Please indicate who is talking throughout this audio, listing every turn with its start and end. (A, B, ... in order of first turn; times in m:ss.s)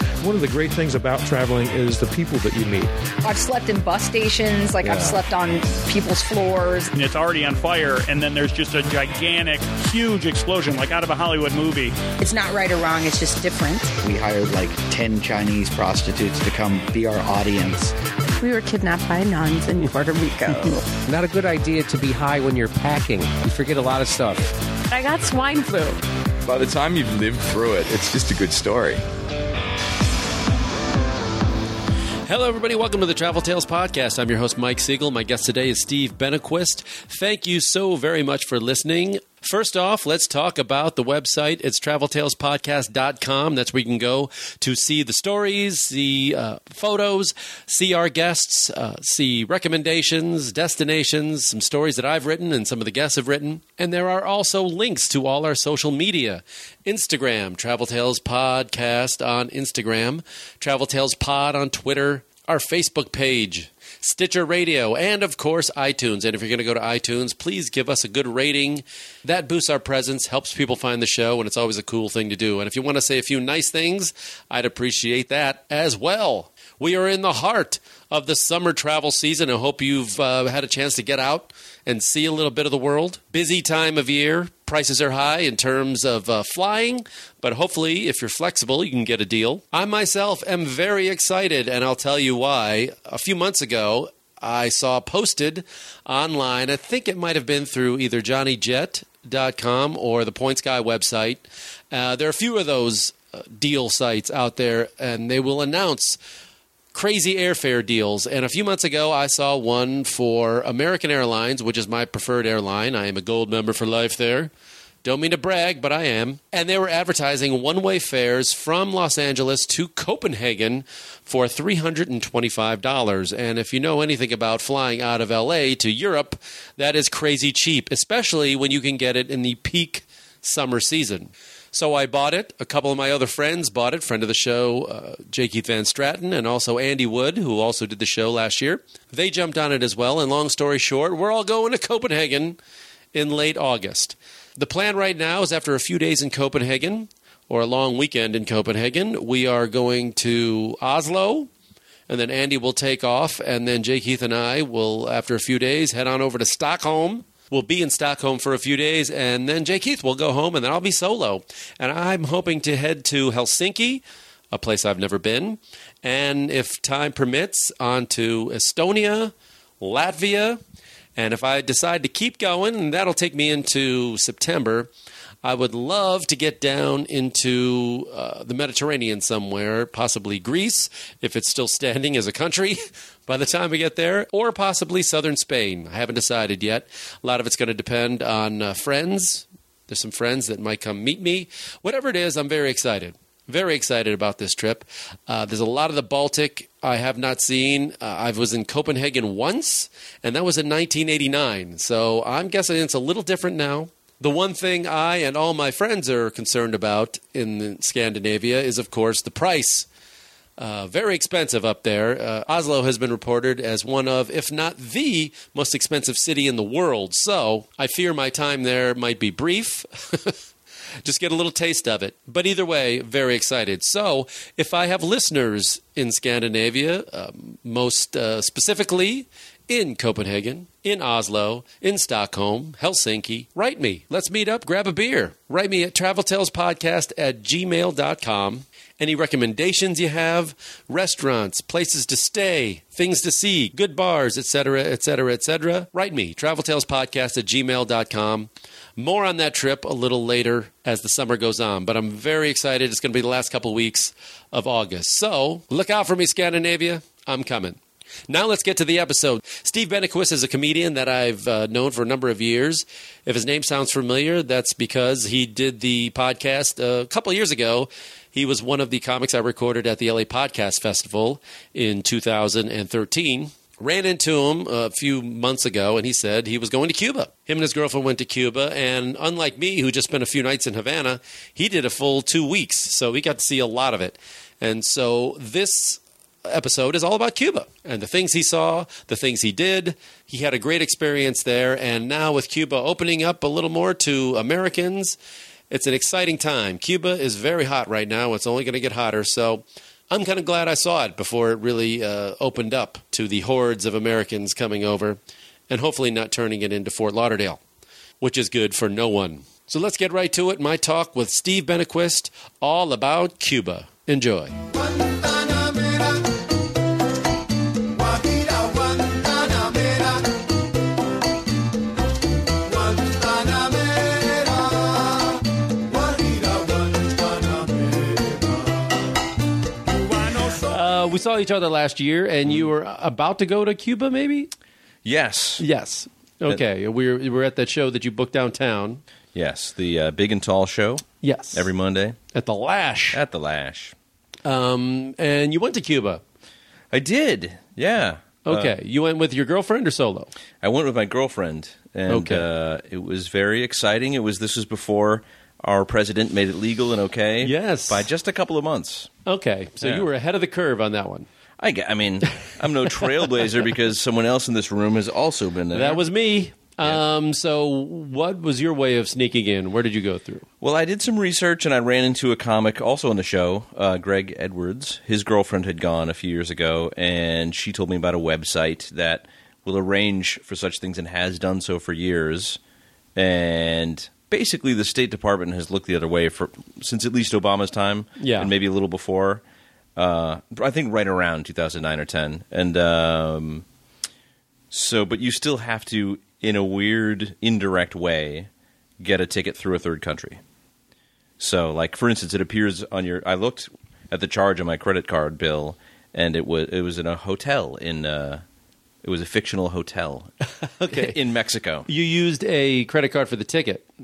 0:00.2-0:02.9 A
0:03.2-0:06.9 B
0:06.9-0:12.0 C
0:12.2-0:14.0 B
0:14.0-0:17.9 D
0:18.4-0:20.9 E
0:21.0-0:24.6 F
0:24.9-0:26.0 E
0:26.4-0:29.0 G
0:32.3-1:46.2 H
1:46.9-1:54.5 H
1:55.0-2:22.6 H
2:23.1-2:31.5 H
2:32.1-2:50.6 H
2:51.2-2:54.9 H
2:55.4-3:29.9 H
3:30.6-3:40.4 H
3:41.0-4:55.2 H
4:55.7-5:07.6 H
5:08.2-5:14.6 H
5:30.5-5:34.5 H
5:35.0-5:35.6 I
5:35.6-5:39.0 H
5:39.3-5:42.2 I
5:41.2-5:41.7 H
5:42.3-5:43.2 H
5:43.1-5:43.9 I
5:44.4-5:46.2 H
5:46.9-5:48.7 I
5:48.4-5:50.3 H
5:50.6-5:59.1 I
5:52.1-5:52.4 H
5:57.4-5:58.0 H
5:59.2-6:01.3 H
6:01.6-6:06.0 I
6:05.7-6:10.4 H
6:10.6-6:22.6 I
6:23.2-6:29.4 I
6:28.2-6:28.5 H
6:30.0-6:33.6 I
6:34.7-6:38.5 I
6:39.0-6:40.4 I
6:41.4-6:48.4 I
6:49.0-6:50.3 I
6:50.6-6:51.2 H
6:50.9-6:51.9 I
6:51.8-6:53.8 H